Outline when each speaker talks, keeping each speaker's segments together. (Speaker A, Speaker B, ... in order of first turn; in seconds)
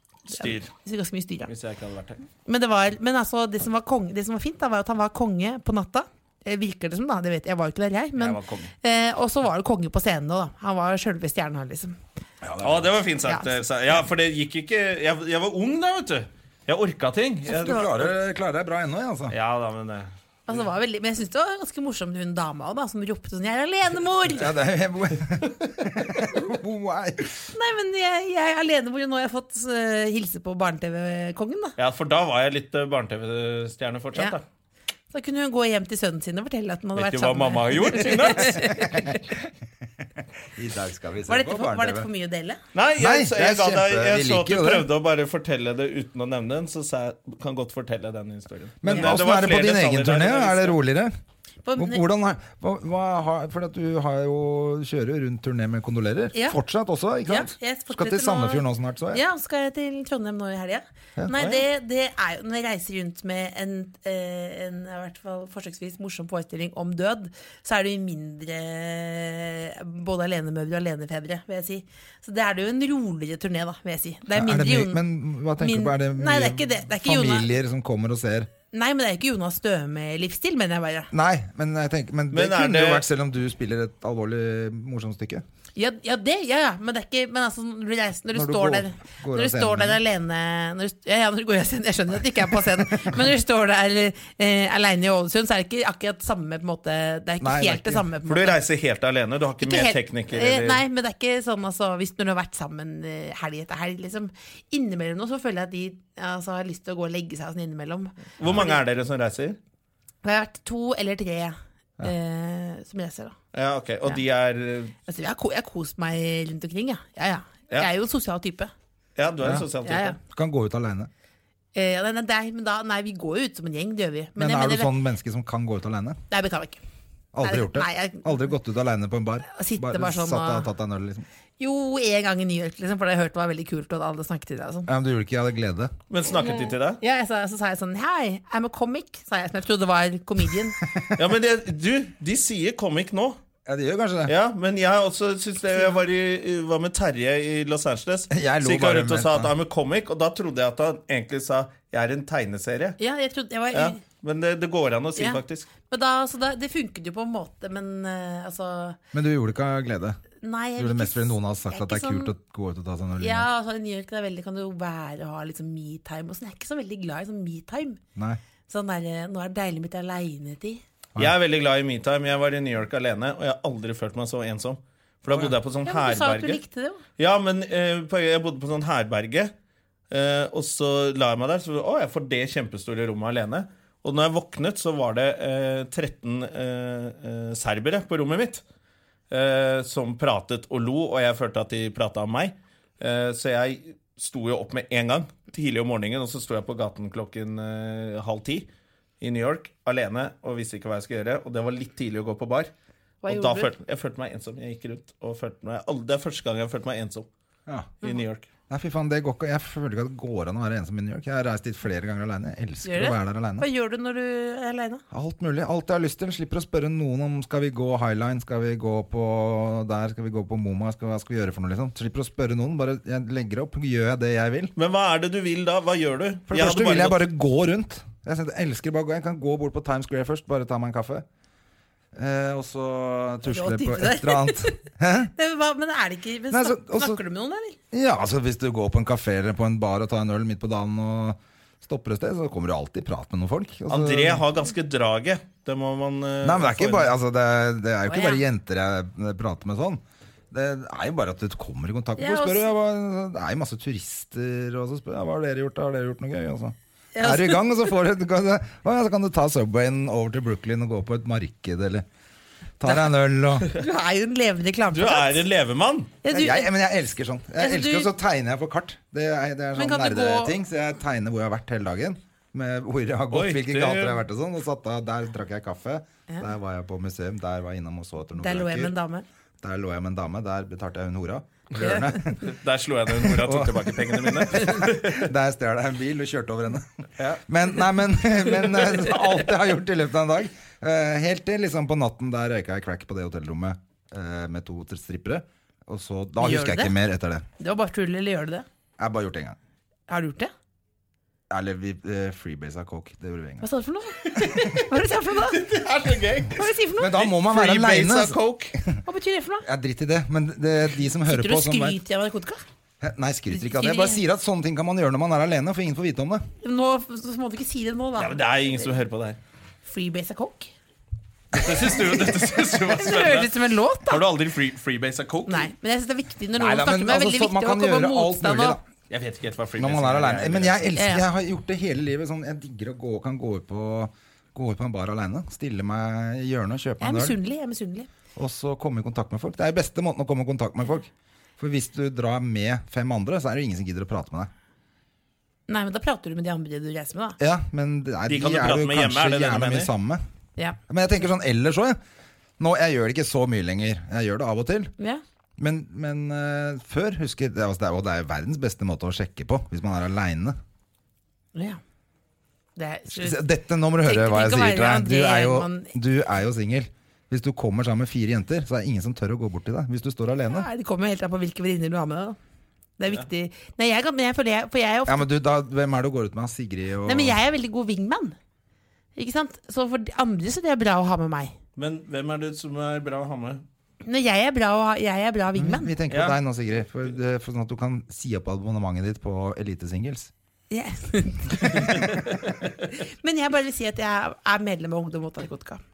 Speaker A: 0.3-0.7, 1.4-2.2, 8.2-8.7, 12.6-18.1, 19.3-20.1, 31.8-34.4, 37.0-38.6, 42.7-50.8, 82.3-83.0, 98.3-100.8, 108.4-109.6, 113.5-114.9, 119.2-120.2, 136.1-137.0, 141.1-143.4, 144.2-153.0, 153.7-155.7, 171.2-176.6, 177.2-179.5, 180.1-188.6, 189.3-198.7, 199.2-202.7, 203.3-207.3, 208.0-208.5, 224.8-227.2, 243.9-247.1, 264.9-266.2, 273.3-274.2, 281.7-285.2, 304.2-304.9, 305.4-308.7, 318.2-319.4, 321.5-323.5, 324.0-325.7, 329.1-330.9, 348.3-349.9, 381.8-383.6, 386.1-386.4
Speaker B: 0.3-1.5, 2.4-12.0, 13.2-13.6, 20.5-24.5, 27.5-31.7, 35.1-39.2, 41.3-42.6, 51.6-52.0, 57.2-75.0, 75.6-77.5, 78.7-81.1, 85.8-98.6, 99.6-108.8, 110.2-113.3, 115.1-118.7, 119.8-120.2, 121.7-124.9, 126.3-126.8, 127.4-128.4, 129.5-130.7, 131.6-134.9, 136.4-140.8, 153.0-154.0, 155.2-159.0, 160.4-162.3, 163.2-168.0, 168.7-170.8, 175.8-177.0, 203.2-203.7, 212.8-215.0, 233.4-234.8, 235.3-237.8, 248.1-248.4, 252.2-252.7, 257.1-257.8, 263.7-265.4, 266.2-266.7, 267.6-268.1, 269.7-270.6, 278.4-279.2, 281.8-282.4, 288.9-289.3, 296.4-296.9, 297.6-298.6, 300.1-300.5, 303.6-305.6, 306.5-307.2, 309.1-309.6, 311.2-312.6, 313.5-314.2, 316.6-318.8, 319.8-320.7, 322.9-324.2, 325.5-328.8, 330.9-331.2, 337.0-338.1, 345.7-347.4, 361.5-361.8, 362.8-363.4, 364.0-365.9, 370.5-372.4, 373.0-375.2, 377.0-378.4, 379.1-381.5, 384.0-385.9, 390.7-395.8
Speaker C: 12.4-12.9, 17.5-19.3, 24.3-27.5, 38.6-39.3, 40.5-42.1, 43.0-44.9, 48.8-51.1, 51.8-59.2, 61.2-61.6, 74.3-78.5, 81.1-85.4, 88.3-90.0, 97.4-98.0, 120.2-121.1, 124.4-126.2, 127.3-131.2, 134.8-135.9, 143.7-144.3, 148.3-149.5, 159.1-160.2, 160.8-163.5, 207.7-207.9, 208.7-213.7, 215.1-224.7, 226.5-231.2, 232.1-235.3, 236.5-237.2, 237.9-244.4, 246.4-262.1, 262.8-263.7, 266.3-278.9, 279.6-282.4, 283.2-297.4, 299.0-299.6, 301.5-303.6, 306.9-309.0, 309.6-312.0, 313.0-316.5, 326.6-328.8, 329.8-337.3, 338.4-344.5, 347.4-350.2, 350.9-352.0, 352.6-354.9, 355.6-360.6, 363.1-370.7, 375.1-377.4, 385.5-390.3